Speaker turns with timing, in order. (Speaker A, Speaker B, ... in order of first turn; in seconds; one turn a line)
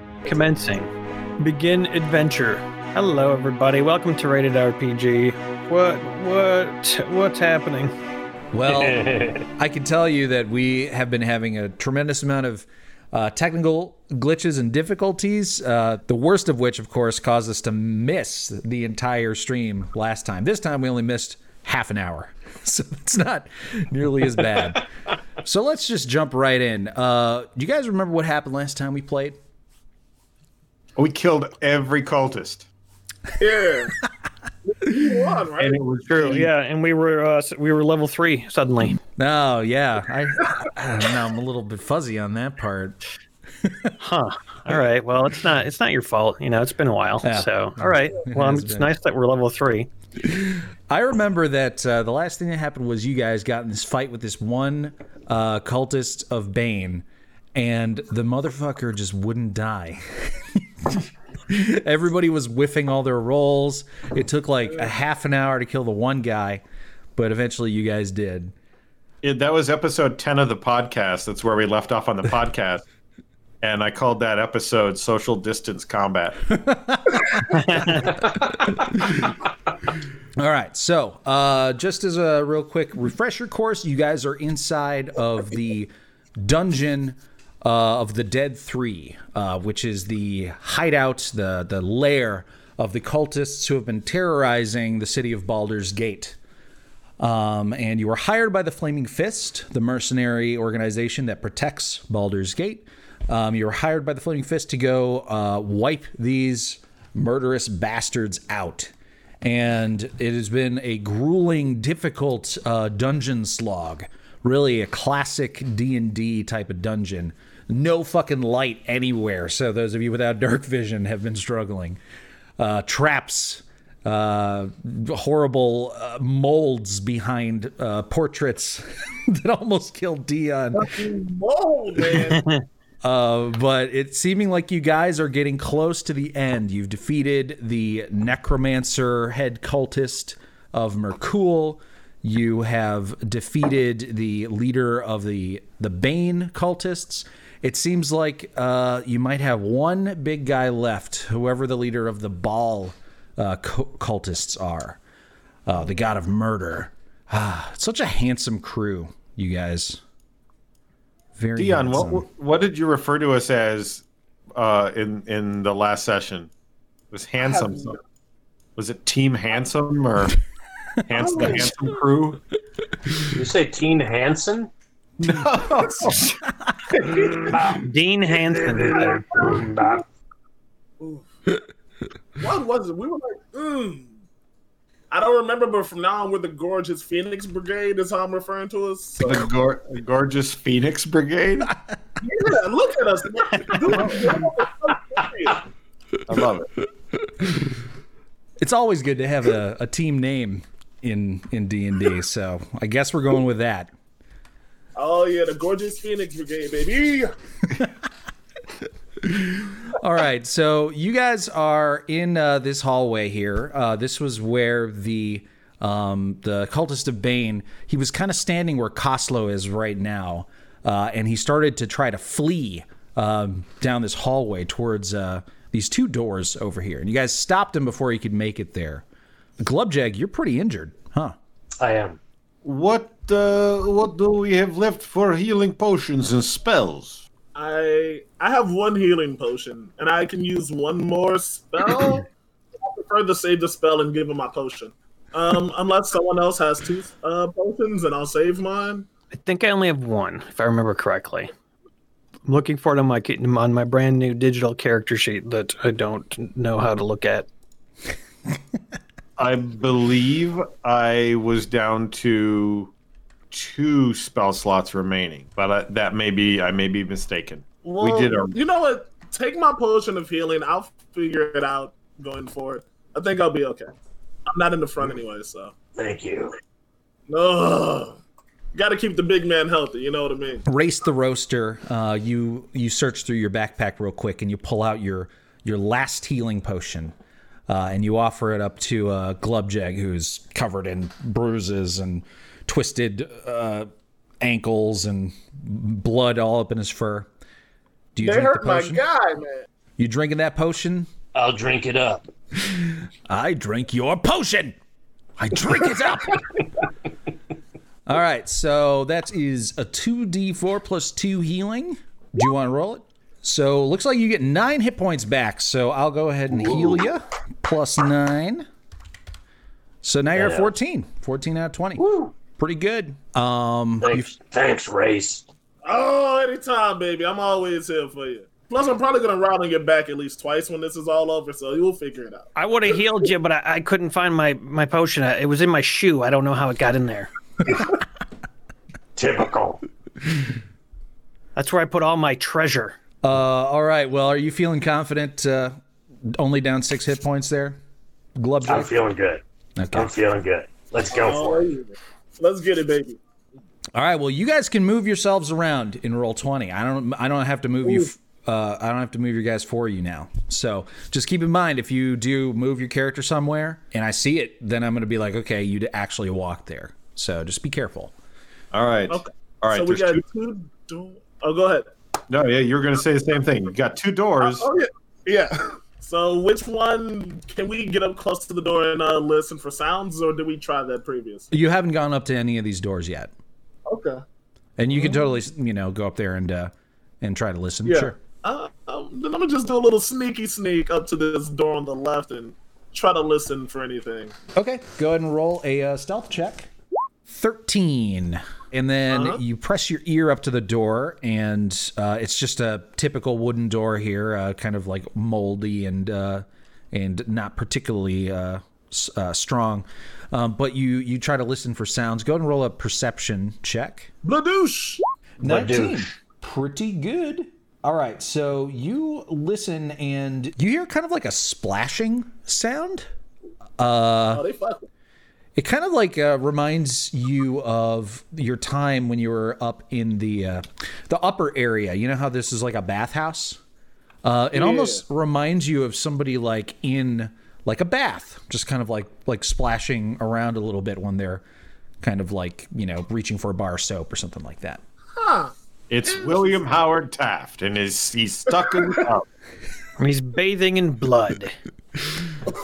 Speaker A: 0.2-7.9
Speaker B: 8.5-24.9
Speaker C: 8.7-9.5
Speaker B: 25.4-29.4
Speaker D: 31.0-32.7
Speaker E: 33.4-34.0
Speaker E: 34.7-35.8
Speaker D: 35.6-36.5
Speaker A: 36.1-39.0
Speaker B: 39.2-43.0
Speaker B: 43.6-43.9
Speaker A: 44.0-49.9
Speaker B: 47.2-48.9
Speaker B: 50.2-66.6
Speaker B: 67.2-68.5
Speaker D: 69.2-72.8
Speaker D: 73.6-76.6
Speaker B: 76.5-78.1
Speaker A: 77.5-78.0
Speaker D: 77.8-78.1
Speaker B: 78.8-79.3
Speaker B: 80.4-96.4
Speaker B: 97.2-122.0
Speaker B: 122.6-131.0
Speaker E: 130.8-132.4
Speaker A: 132.3-132.6
Speaker B: 133.0-155.0
Speaker B: 155.7-160.0
Speaker B: 161.4-162.2
Speaker D: 161.6-164.0
Speaker D: 164.6-166.5
Speaker D: 167.1-168.0
Speaker E: 167.4-167.9
Speaker D: 168.8-170.4
Speaker D: 171.1-172.4
Speaker B: 171.2-171.4
Speaker E: 171.2-171.7
Speaker C: 173.3-174.7
Speaker D: 175.2-176.4
Speaker B: 176.3-176.8
Speaker D: 176.9-177.4
Speaker C: 177.1-180.1
Speaker E: 177.1-177.5
Speaker A: 177.7-179.2
Speaker E: 178.9-179.6
Speaker E: 181.0-181.3
Speaker E: 182.4-184.1
Speaker E: 185.1-189.4
Speaker D: 189.2-191.7
Speaker E: 192.2-195.7
Speaker D: 193.8-194.4
Speaker D: 196.3-196.7
Speaker B: 198.6-203.9
Speaker E: 205.0-207.3
Speaker B: 209.2-229.0
Speaker B: 229.6-231.3
Speaker C: 231.8-232.2
Speaker D: 232.6-237.2
Speaker E: 237.6-242.3
Speaker E: 242.8-249.1
Speaker A: 249.3-251.5
Speaker A: 252.5-257.5
Speaker D: 259.4-262.9
Speaker D: 263.5-268.6
Speaker E: 267.8-273.9
Speaker E: 274.5-275.7
Speaker C: 276.0-276.5
Speaker E: 277.3-278.2
Speaker E: 278.7-280.6
Speaker B: 280.7-287.1
Speaker B: 287.7-293.9
Speaker B: 294.4-297.3
Speaker B: 298.1-299.0
Speaker E: 298.2-299.6
Speaker B: 300.0-301.1
Speaker C: 301.3-302.3
Speaker B: 302.7-304.8
Speaker B: 305.4-306.4
Speaker B: 308.1-318.7
Speaker C: 316.6-317.1
Speaker B: 320.0-324.3
Speaker C: 320.4-320.7
Speaker C: 322.0-322.3
Speaker C: 324.0-325.4
Speaker E: 325.8-332.5
Speaker A: 332.6-337.3
Speaker C: 339.2-339.8
Speaker A: 341.6-343.0
Speaker B: 343.2-347.8
Speaker B: 348.4-348.9
Speaker C: 348.6-351.7
Speaker B: 349.8-350.1
Speaker E: 351.1-353.2
Speaker B: 353.9-368.1
Speaker D: 368.7-370.2
Speaker E: 369.1-371.9
Speaker D: 372.3-374.7
Speaker E: 374.4-381.5
Speaker B: 381.5-383.3
Speaker E: 383.9-384.2
Speaker B: 384.8-388.2
Speaker E: 384.9-385.2
Speaker E: 387.9-394.4
Speaker B: 394.6-396.7
Speaker B: 397.3-414.1
Speaker E: 399.1-399.4
Speaker E: 414.2-415.0
Speaker C: 415.4-416.1
Speaker B: 415.4-423.1
Speaker B: 423.8-424.4
Speaker E: 424.3-424.9
Speaker B: 425.6-433.6
Speaker B: 434.2-441.4
Speaker E: 434.6-435.0
Speaker B: 442.0-444.8
Speaker E: 445.2-445.5
Speaker D: 445.9-449.3
Speaker E: 446.2-446.5
Speaker A: 450.0-451.6